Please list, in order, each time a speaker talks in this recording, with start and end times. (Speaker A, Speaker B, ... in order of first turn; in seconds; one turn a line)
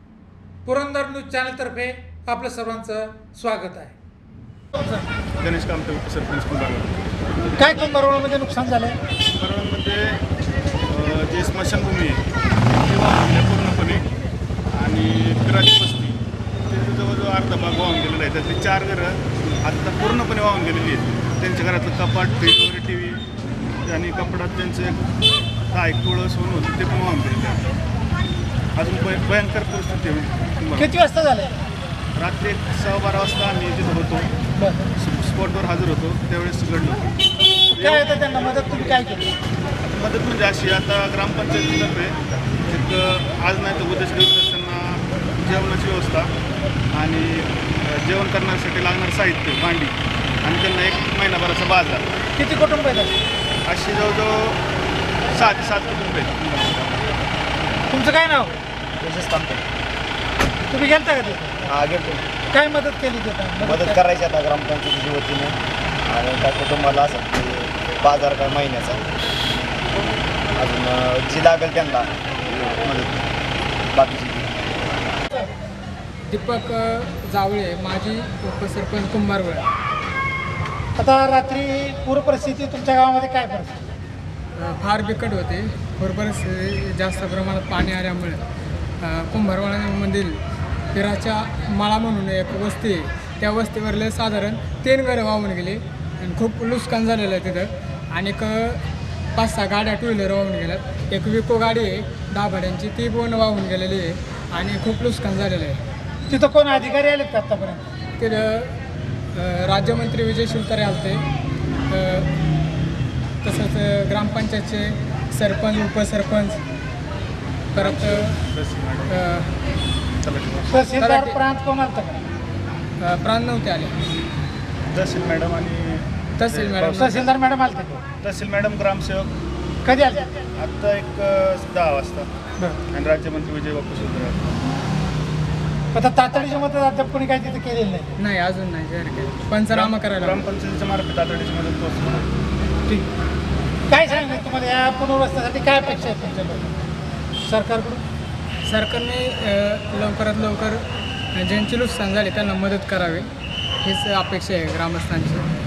Speaker A: 0.7-3.8
Speaker B: 5.4-7.0
Speaker C: 7.6-9.0
Speaker B: 9.4-10.2
Speaker B: 10.9-14.1
Speaker B: 14.7-23.2
Speaker B: 23.9-25.0
Speaker B: 25.7-27.7
Speaker B: 28.8-30.9
Speaker C: 30.8-31.5
Speaker B: 32.1-34.3
Speaker C: 34.6-34.9
Speaker B: 35.0-37.1
Speaker B: 37.7-38.7
Speaker C: 37.7-39.3
Speaker B: 39.9-46.3
Speaker B: 46.9-52.1
Speaker C: 52.4-53.1
Speaker B: 53.6-54.6
Speaker B: 55.3-57.0
Speaker C: 57.9-58.5
Speaker D: 59.0-59.6
Speaker C: 60.7-61.6
Speaker D: 61.7-62.2
Speaker C: 62.5-64.0
Speaker D: 63.6-69.0
Speaker D: 70.5-73.3
Speaker D: 73.9-74.5
Speaker E: 76.3-79.7
Speaker C: 81.0-83.8
Speaker E: 84.5-88.4
Speaker E: 89.0-90.4
Speaker E: 90.9-98.8
Speaker E: 99.3-105.8
Speaker C: 106.3-107.9
Speaker E: 108.2-108.7
Speaker E: 109.3-111.2
Speaker E: 111.9-112.3
Speaker E: 113.4-116.6
Speaker E: 117.7-118.4
Speaker B: 117.7-119.2
Speaker E: 119.1-119.5
Speaker B: 120.2-120.9
Speaker C: 120.7-122.2
Speaker E: 121.0-121.4
Speaker E: 123.0-124.0
Speaker B: 124.9-127.3
Speaker E: 126.4-127.3
Speaker C: 127.0-128.0
Speaker B: 128.2-129.3
Speaker C: 129.8-130.3
Speaker B: 130.5-132.3
Speaker B: 132.9-134.6
Speaker C: 135.9-138.1
Speaker E: 138.2-140.4
Speaker B: 139.7-142.3
Speaker C: 143.9-146.8
Speaker C: 147.4-148.0
Speaker E: 148.7-150.8
Speaker E: 151.3-153.3
Speaker E: 153.8-155.4